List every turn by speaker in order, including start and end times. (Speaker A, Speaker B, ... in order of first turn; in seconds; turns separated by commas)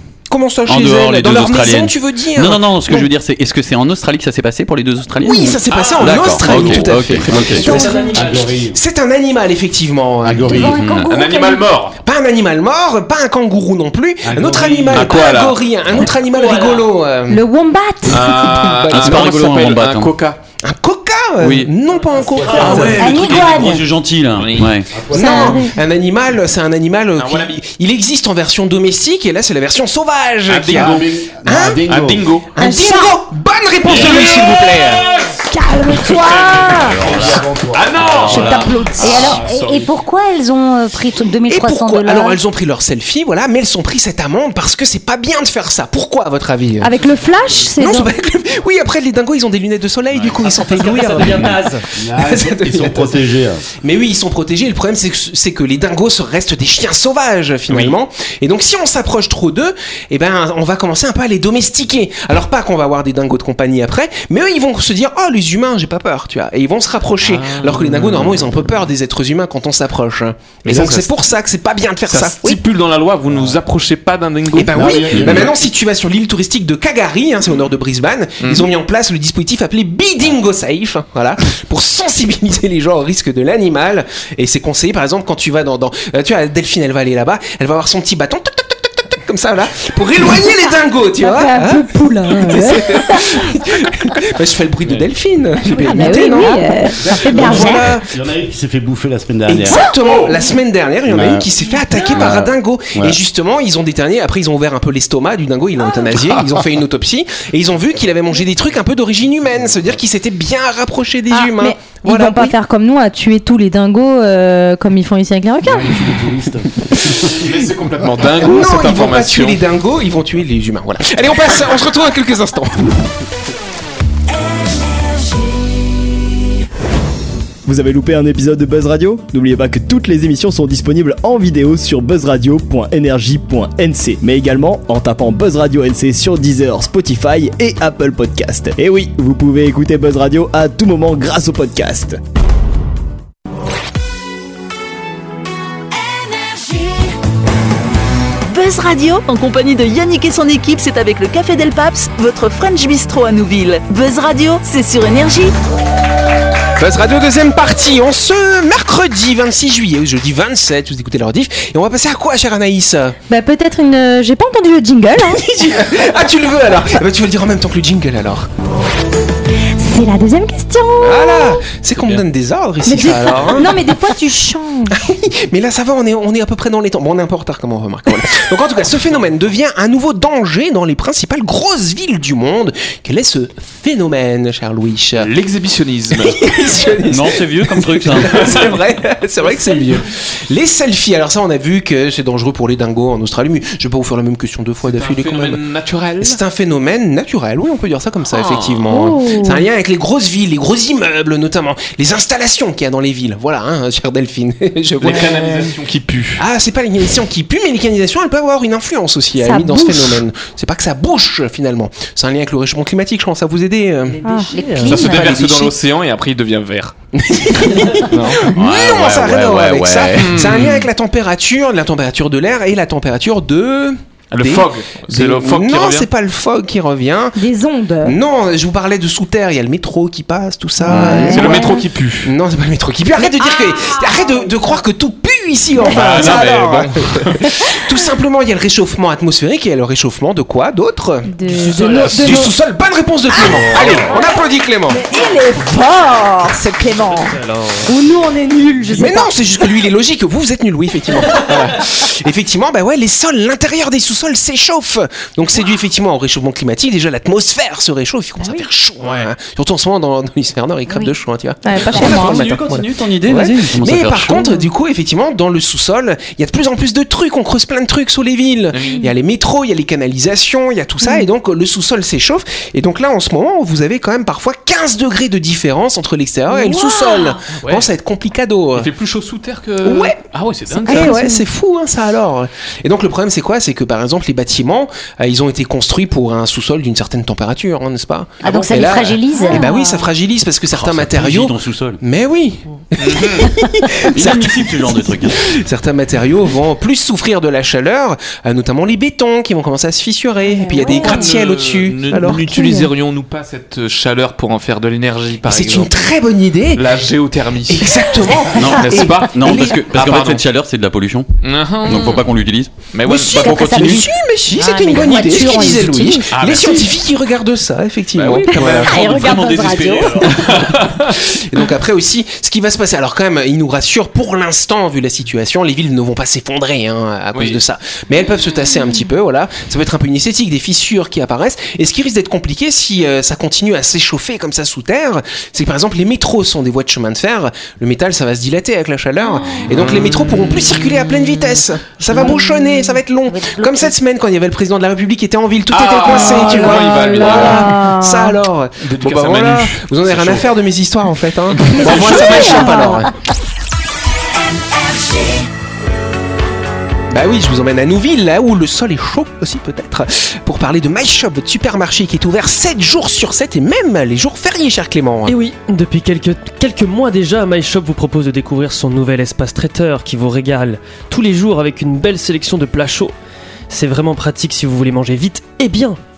Speaker A: 0.3-3.1, Speaker B: 0.7-7.7, Speaker A: 5.2-10.7, Speaker C: 5.7-8.4, Speaker D: 7.3-8.8, Speaker E: 7.6-8.3, Speaker D: 10.2-10.9, Speaker E: 10.4-11.7, Speaker B: 10.8-11.1, Speaker C: 11.0-12.0, Speaker A: 12.0-17.4, Speaker D: 14.2-15.1, Speaker C: 14.4-15.6, Speaker C: 16.3-16.9, Speaker F: 17.3-18.5, Speaker C: 18.1-20.4, Speaker A: 18.1-19.3, Speaker B: 18.9-20.1, Speaker A: 20.6-23.3, Speaker C: 21.4-21.7, Speaker C: 22.5-23.6, Speaker B: 22.5-25.0, Speaker E: 23.0-23.8, Speaker F: 23.1-23.8, Speaker C: 24.4-24.8, Speaker D: 24.9-25.4, Speaker A: 25.1-31.8, Speaker F: 25.1-25.7, Speaker C: 27.2-27.6, Speaker C: 30.5-31.2, Speaker D: 30.7-32.3, Speaker C: 31.9-32.5, Speaker A: 32.5-35.1, Speaker F: 32.6-33.1, Speaker E: 32.8-33.1, Speaker C: 33.8-39.9, Speaker F: 35.5-37.1, Speaker B: 36.9-39.3, Speaker D: 37.0-38.3, Speaker F: 38.3-39.4, Speaker E: 39.0-42.4, Speaker A: 41.5-46.9, Speaker F: 46.8-48.1, Speaker A: 47.7-72.6, Speaker G: 50.4-51.8, Speaker D: 51.2-53.6, Speaker C: 67.2-68.2, Speaker C: 70.6-71.1, Speaker C: 72.1-75.5, Speaker A: 74.5-98.1, Speaker D: 74.7-75.5, Speaker C: 78.4-78.7, Speaker F: 91.2-93.4, Speaker F: 95.7-98.0, Speaker E: 96.3-96.6, Speaker D: 97.0-99.8, Speaker A: 99.5-112.5, Speaker C: 100.0-100.3, Speaker D: 101.0-101.5, Speaker D: 102.1-103.2, Speaker F: 111.3-116.0, Speaker D: 115.7-117.3, Speaker A: 116.9-117.2, Speaker C: 117.2-119.6, Speaker A: 118.4-123.0, Speaker H: 127.7-142.2, Speaker I: 148.5-155.5, Speaker A: 156.8-163.2, Speaker F: 163.3-165.4, Speaker A: 165.3-168.5, Speaker F: 169.8-171.6, Speaker A: 171.0-173.8, Speaker C: 171.9-172.2, Speaker F: 172.8-175.0, Speaker A: 174.9-185.3, Speaker C: 185.2-186.5, Speaker A: 186.1-195.6, Speaker B: 187.1-188.4, Speaker C: 188.3-188.6, Speaker C: 189.4-190.0, Speaker C: 194.8-196.4, Speaker A: 196.2-205.7, Speaker C: 198.3-198.8, Speaker F: 198.9-199.7, Speaker C: 205.0-206.4, Speaker A: 206.4-214.2, Speaker F: 209.4-210.2, Speaker G: 214.2-215.2, Speaker F: 214.2-214.8, Speaker E: 214.5-215.7, Speaker C: 214.9-216.9, Speaker A: 217.1-227.4, Speaker C: 218.1-218.5, Speaker B: 218.5-220.6, Speaker C: 220.2-220.9, Speaker C: 224.3-226.1, Speaker F: 227.3-228.2, Speaker A: 228.0-241.3, Speaker F: 230.8-231.8, Speaker C: 230.8-232.3, Speaker C: 235.9-237.4, Speaker B: 235.9-236.5, Speaker F: 241.2-242.5, Speaker C: 241.5-242.5, Speaker A: 242.1-245.0, Speaker F: 243.3-249.6, Speaker C: 243.5-244.1, Speaker C: 247.4-247.8, Speaker A: 248.9-262.5, Speaker F: 258.4-258.6, Speaker C: 259.0-259.3, Speaker F: 261.6-262.9, Speaker B: 261.9-264.6, Speaker A: 263.2-278.9, Speaker C: 268.7-269.1, Speaker F: 271.0-271.3, Speaker F: 276.5-277.3, Speaker C: 276.7-277.9, Speaker C: 278.7-281.1, Speaker A: 279.8-280.2, Speaker F: 280.9-281.4, Speaker A: 280.9-302.4, Speaker E: 288.4-289.7, Speaker F: 289.3-290.1, Speaker B: 290.7-292.0, Speaker C: 293.0-293.4, Speaker B: 294.0-295.4, Speaker F: 300.4-301.3, Speaker C: 300.8-305.9, Speaker F: 302.1-302.9, Speaker A: 305.4-306.9, Speaker C: 306.7-308.1, Speaker A: 307.7-309.8, Speaker B: 308.5-311.3, Speaker C: 308.8-310.4, Speaker C: 311.4-312.2, Speaker B: 311.8-312.7, Speaker C: 312.9-314.1, Speaker A: 313.1-319.0, Speaker E: 313.3-314.1, Speaker F: 314.5-316.3, Speaker E: 314.9-315.7, Speaker C: 316.3-316.9, Speaker C: 318.1-318.9, Speaker F: 318.7-320.3, Speaker B: 318.7-320.4, Speaker C: 320.2-321.1, Speaker A: 320.4-353.1, Speaker C: 327.3-327.6, Speaker C: 339.7-340.7, Speaker E: 342.1-342.4, Speaker E: 343.3-343.9, Speaker C: 345.7-347.7, Speaker F: 346.3-348.4, Speaker C: 348.8-350.4, Speaker C: 351.6-352.7, Speaker F: 351.9-353.1, Speaker E: 352.2-353.0, Speaker A: 357.1-365.4, Speaker G: 365.2-373.1, Speaker G: 373.7-376.0